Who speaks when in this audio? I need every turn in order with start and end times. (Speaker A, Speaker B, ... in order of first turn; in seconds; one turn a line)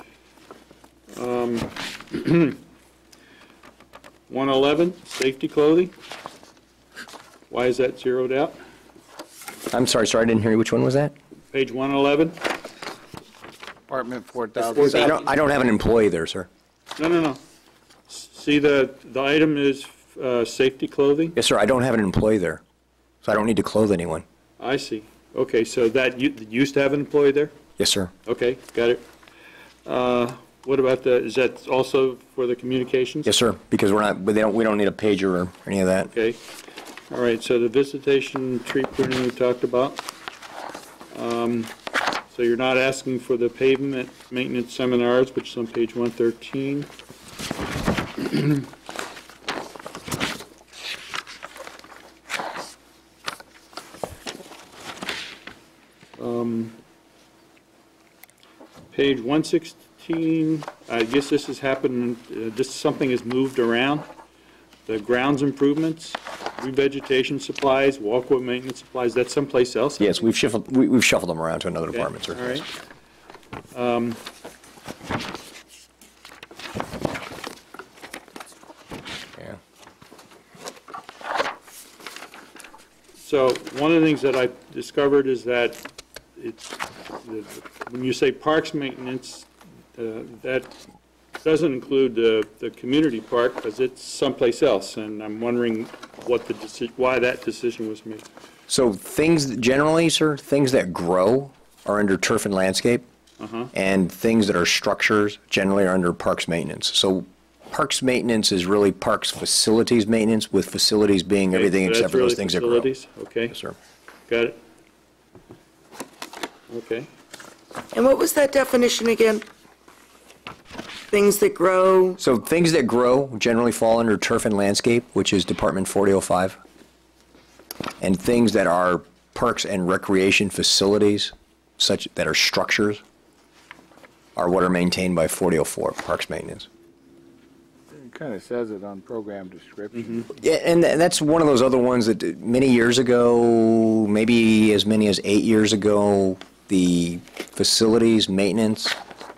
Speaker A: 1.1-2.6
Speaker A: 4.3-5.9
Speaker A: 7.5-8.6
Speaker B: 9.7-11.1
Speaker A: 11.5-12.4
Speaker C: 13.9-15.2
Speaker A: 14.7-15.2
Speaker B: 14.8-16.5
Speaker A: 17.0-17.4
Speaker A: 18.1-21.4
Speaker B: 21.3-22.6
Speaker B: 23.2-24.2
Speaker A: 24.6-27.5
Speaker B: 27.8-28.1
Speaker A: 28.2-29.0
Speaker A: 29.9-33.3
Speaker B: 33.2-36.1
Speaker A: 36.1-36.4
Speaker A: 37.1-40.0
Speaker A: 41.1-41.7
Speaker A: 42.3-46.9
Speaker A: 48.2-48.6
Speaker A: 56.2-56.8
Speaker A: 58.9-64.1
Speaker A: 64.9-70.2
Speaker B: 70.0-72.6
Speaker A: 71.9-72.7
Speaker A: 73.7-74.2
Speaker A: 83.2-85.8
Speaker A: 86.4-90.7
Speaker A: 91.4-98.2
Speaker B: 98.7-103.0
Speaker A: 103.4-103.7
Speaker B: 103.7-112.9
Speaker A: 111.5-113.5
Speaker B: 113.5-113.8
Speaker A: 114.3-114.6
Speaker A: 116.7-117.1
Speaker D: 117.9-119.4
Speaker D: 121.1-122.2
Speaker B: 122.2-126.6
Speaker B: 128.0-133.0
Speaker B: 134.3-136.7
Speaker C: 137.9-140.3
Speaker B: 140.3-149.0